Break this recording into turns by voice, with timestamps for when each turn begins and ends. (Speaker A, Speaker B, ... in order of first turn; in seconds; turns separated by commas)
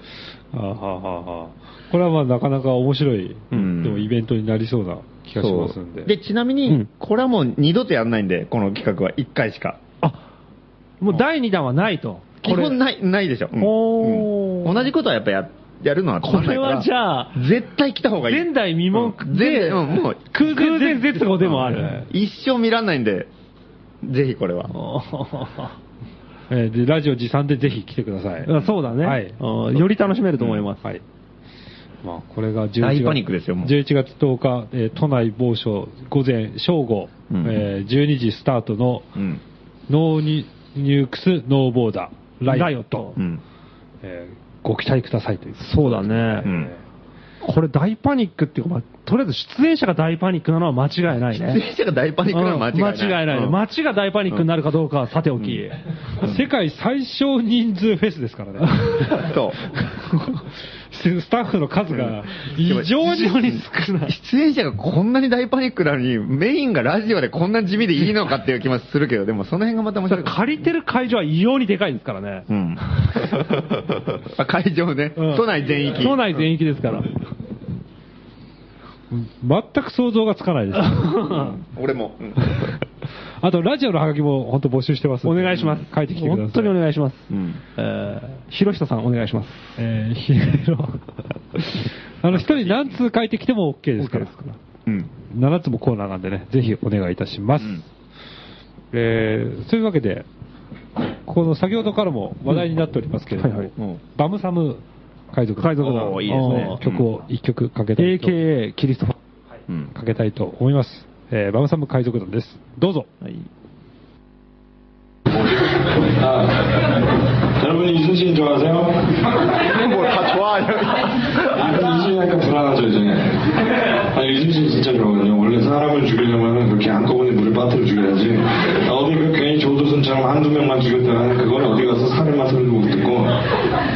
Speaker A: 0.5-6.1, Speaker B: 3.5-4.1, Speaker B: 5.4-9.8, Speaker C: 11.0-12.8, Speaker B: 12.4-20.2, Speaker C: 13.6-14.8, Speaker C: 16.2-17.4, Speaker C: 18.3-22.0, Speaker A: 20.4-22.0, Speaker B: 22.0-23.3, Speaker B: 24.0-24.7, Speaker C: 24.7-25.7, Speaker A: 26.5-29.4, Speaker C: 28.4-30.8, Speaker B: 30.4-30.6, Speaker A: 32.0-39.1, Speaker B: 32.8-33.7, Speaker B: 37.3-37.6, Speaker B: 39.1-39.4, Speaker A: 39.9-43.0, Speaker C: 42.5-43.2, Speaker B: 43.2-43.4, Speaker A: 44.0-46.8, Speaker C: 45.6-46.5, Speaker B: 46.4-46.7, Speaker C: 47.4-51.6, Speaker B: 51.3-53.6, Speaker C: 52.3-55.8, Speaker A: 56.2-59.2, Speaker B: 59.1-59.6, Speaker A: 60.9-63.6, Speaker B: 61.9-63.5, Speaker C: 63.0-64.1, Speaker B: 64.0-70.4, Speaker C: 70.1-72.5, Speaker B: 72.5-73.4, Speaker B: 74.2-76.4, Speaker C: 75.2-77.1, Speaker A: 79.1-81.2, Speaker C: 81.0-81.5, Speaker B: 81.2-82.7, Speaker A: 83.4-86.8, Speaker C: 85.2-89.8, Speaker B: 87.3-87.6, Speaker A: 89.8-91.0, Speaker A: 91.5-94.3, Speaker B: 92.2-93.0, Speaker C: 94.0-94.6, Speaker B: 94.8-95.1, Speaker A: 95.3-97.8, Speaker A: 98.9-100.2, Speaker A: 101.3-108.4, Speaker C: 103.4-103.7, Speaker C: 105.6-106.8, Speaker B: 105.8-107.1, Speaker C: 108.0-109.2, Speaker A: 109.9-113.1, Speaker B: 113.2-113.5, Speaker D: 115.6-116.9, Speaker D: 117.6-120.0, Speaker B: 119.7-121.1, Speaker D: 121.3-133.4